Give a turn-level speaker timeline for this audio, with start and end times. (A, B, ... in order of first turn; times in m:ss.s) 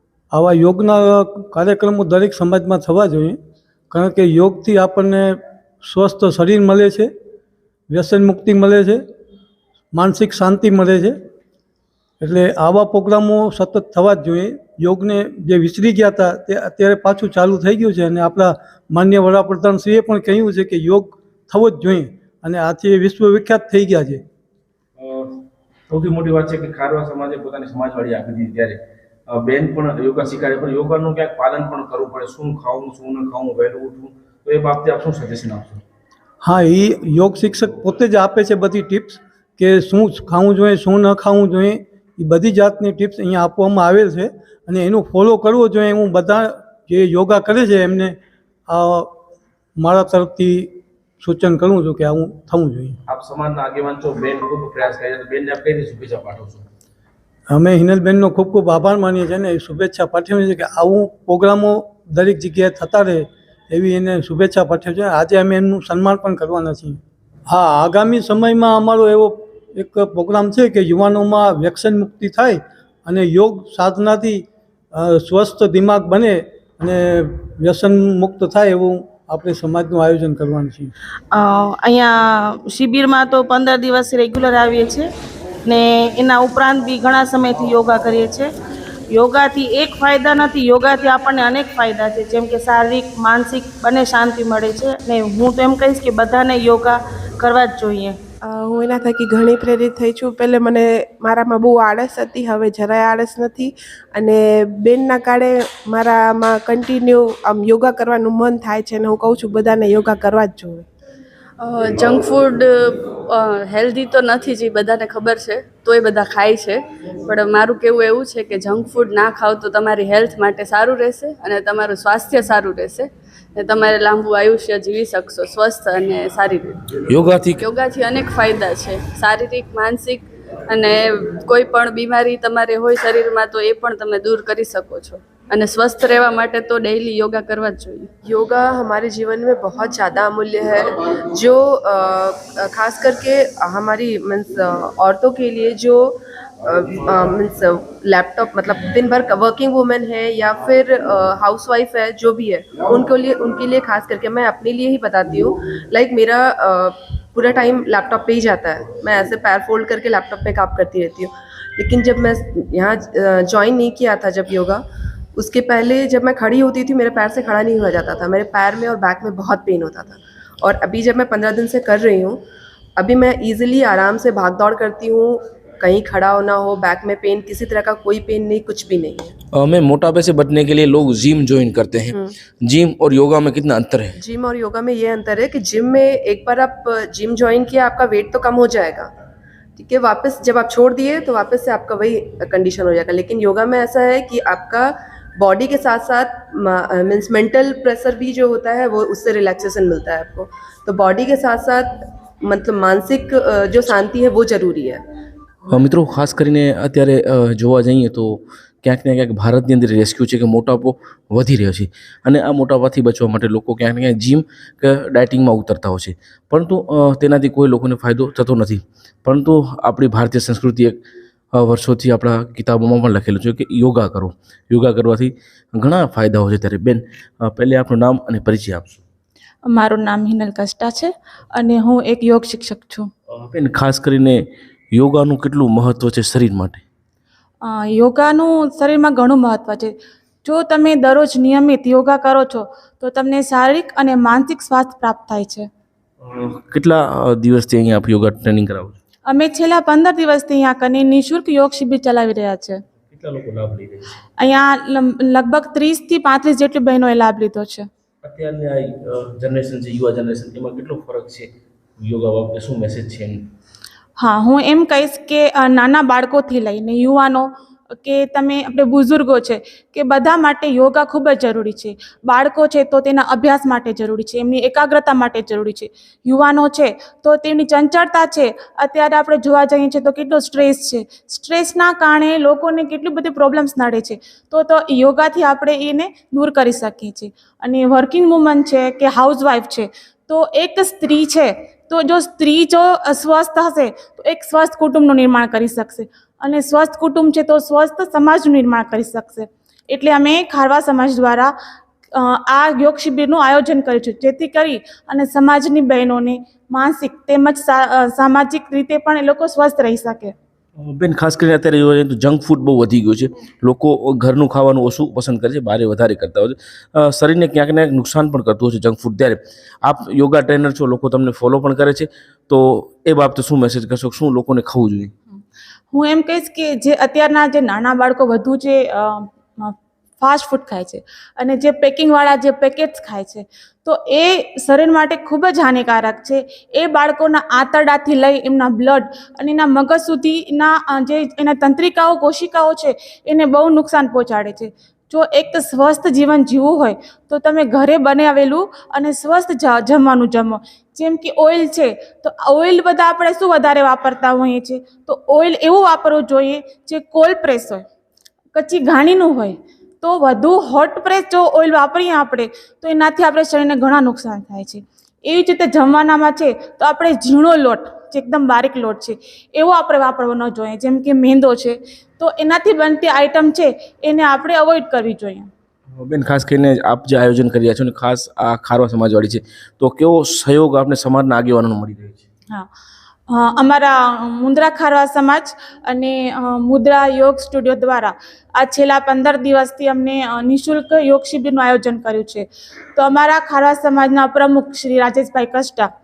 0:00.3-0:03.4 A
0:03.9-0:07.1 A
0:07.9-0:09.0 A
0:09.9-0:11.2 A
0:12.2-0:24.2 A
0:25.0-0:35.8 B
0:36.4-0:48.2 A
0:48.7-0:49.1 A
0:49.8-0:53.0 A
0:53.1-0:56.7 B
0:57.5-1:07.0 A
1:07.5-1:14.4 A
1:15.0-1:20.9 A
1:21.3-1:25.1 C
1:25.6-1:28.5 C
1:29.1-1:38.2 C
1:38.4-1:50.9 D
1:51.6-2:06.8 E
2:07.1-2:07.7 B
2:07.6-2:18.1 E
2:18.2-2:44.8 F
2:45.4-2:52.4 F
2:53.0-2:59.3 F
2:59.5-3:04.2 B
3:04.2-3:09.1 F
3:09.8-3:25.0 F
3:25.7-3:41.0 B
3:41.5-3:49.0 B
3:49.7-3:53.1 G
3:53.3-3:56.8 B
3:57.6-4:05.7 G
4:06.2-4:09.0 B
4:09.3-4:12.8 G
4:13.1-4:14.2 B
4:14.4-4:17.9 G
4:18.2-4:23.5 B
4:24.2-4:27.5 G
4:28.0-5:01.5 G
5:02.2-5:10.3 G
5:10.8-5:25.1 B
5:25.9-5:57.8 G
5:58.6-6:15.5 G
6:15.9-6:22.2 B
6:23.3-6:35.9 G